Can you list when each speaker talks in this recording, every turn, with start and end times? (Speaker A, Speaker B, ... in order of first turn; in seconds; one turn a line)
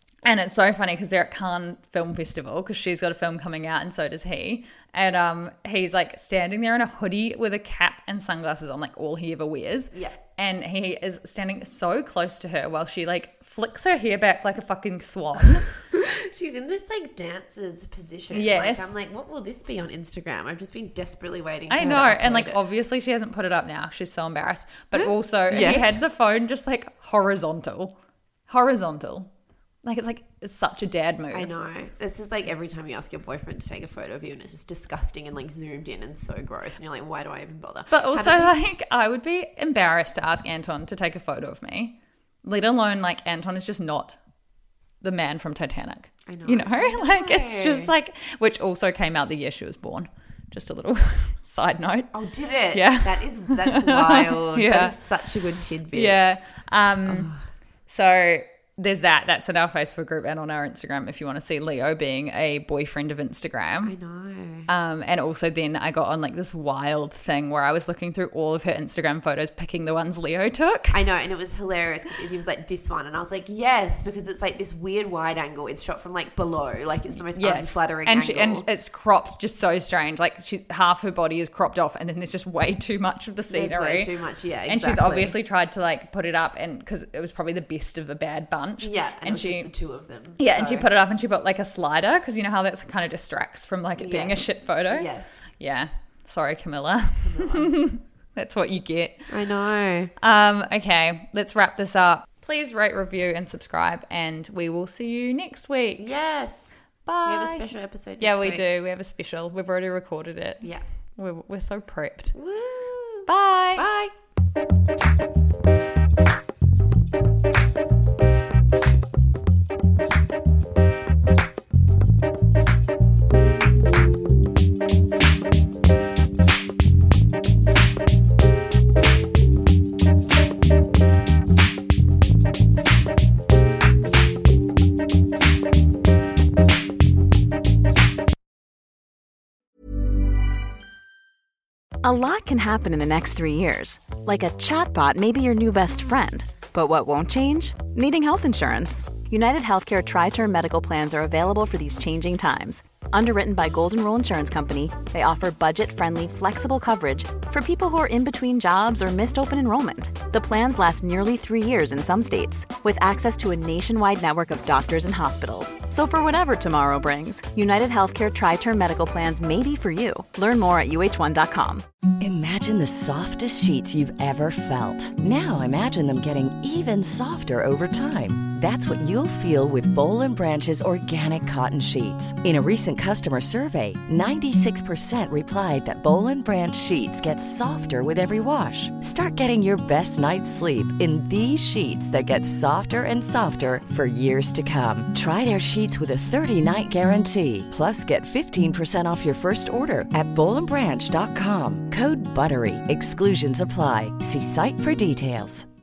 Speaker A: 0.2-15.8
Speaker B: 15.9-22.6
Speaker A: 18.3-18.9
Speaker A: 21.7-27.9
Speaker B: 24.9-26.0
Speaker A: 28.5-29.3
Speaker A: 29.8-31.5
Speaker B: 31.3-38.5
Speaker A: 37.9-44.2
Speaker A: 45.0-52.1
Speaker B: 46.3-47.9
Speaker B: 52.1-56.2
Speaker A: 52.7-55.0
Speaker A: 55.9-57.3
Speaker B: 57.0-57.4
Speaker A: 57.9-63.9
Speaker B: 63.8-64.7
Speaker A: 64.7-71.0
Speaker B: 70.9-78.7
Speaker A: 77.3-84.1
Speaker B: 83.5-85.4
Speaker A: 84.7-89.7
Speaker B: 88.8-90.9
Speaker A: 90.4-99.4
Speaker B: 94.0-95.5
Speaker B: 97.2-97.8
Speaker B: 99.3-100.1
Speaker A: 100.2-106.1
Speaker B: 106.0-108.6
Speaker A: 107.1-107.6
Speaker A: 108.2-112.3
Speaker B: 112.3-114.1
Speaker A: 113.3-113.9
Speaker C: 142.0-171.8
Speaker D: 172.2-205.7